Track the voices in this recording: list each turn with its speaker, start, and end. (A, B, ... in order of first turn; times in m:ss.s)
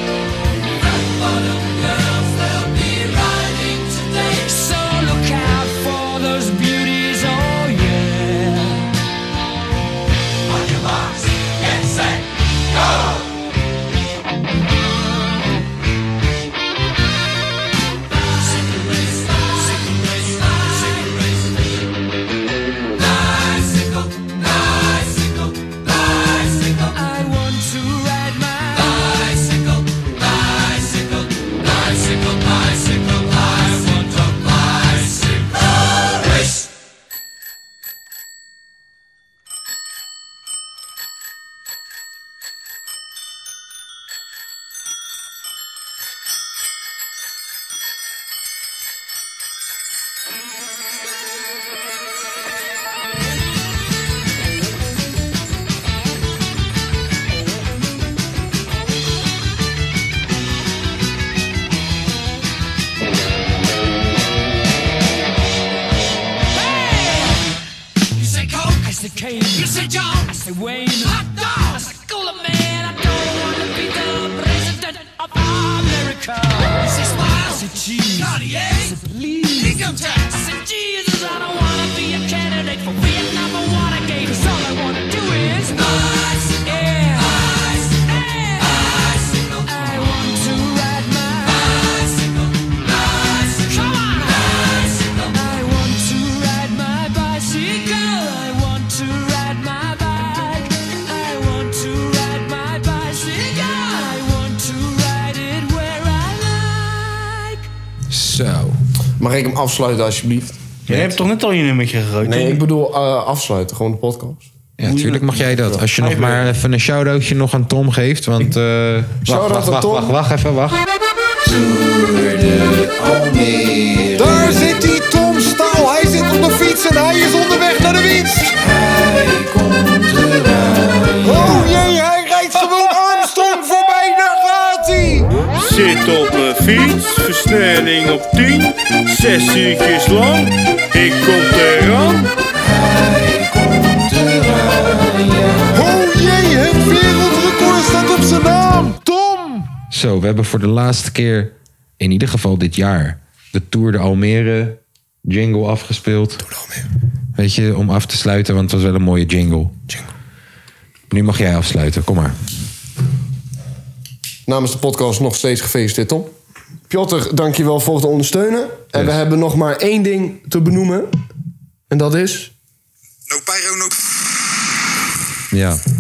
0:01.1-0:08.9 A
0:26.8-0:29.2 A
1:06.6-1:07.4 A
1:08.2-1:32.4 A
1:33.3-1:47.7 A
1:48.1-1:48.8 B
1:49.2-1:50.6 C
1:50.9-1:52.6 D
1:52.2-1:54.5 C
1:54.8-2:00.8 B
1:54.8-1:56.5 D
1:59.2-2:00.2 C
2:01.4-2:15.3 B
2:04.2-2:08.0 E
2:08.7-2:12.1 E
2:15.5-2:22.3 F
2:22.6-2:29.0 B
2:25.8-2:29.6 E
2:29.7-2:36.4 B
2:37.4-2:39.9 B
2:41.1-2:42.4 B
2:44.4-2:46.3 C
2:46.9-2:51.1 C
2:51.9-2:52.5 C
2:55.5-2:55.8 B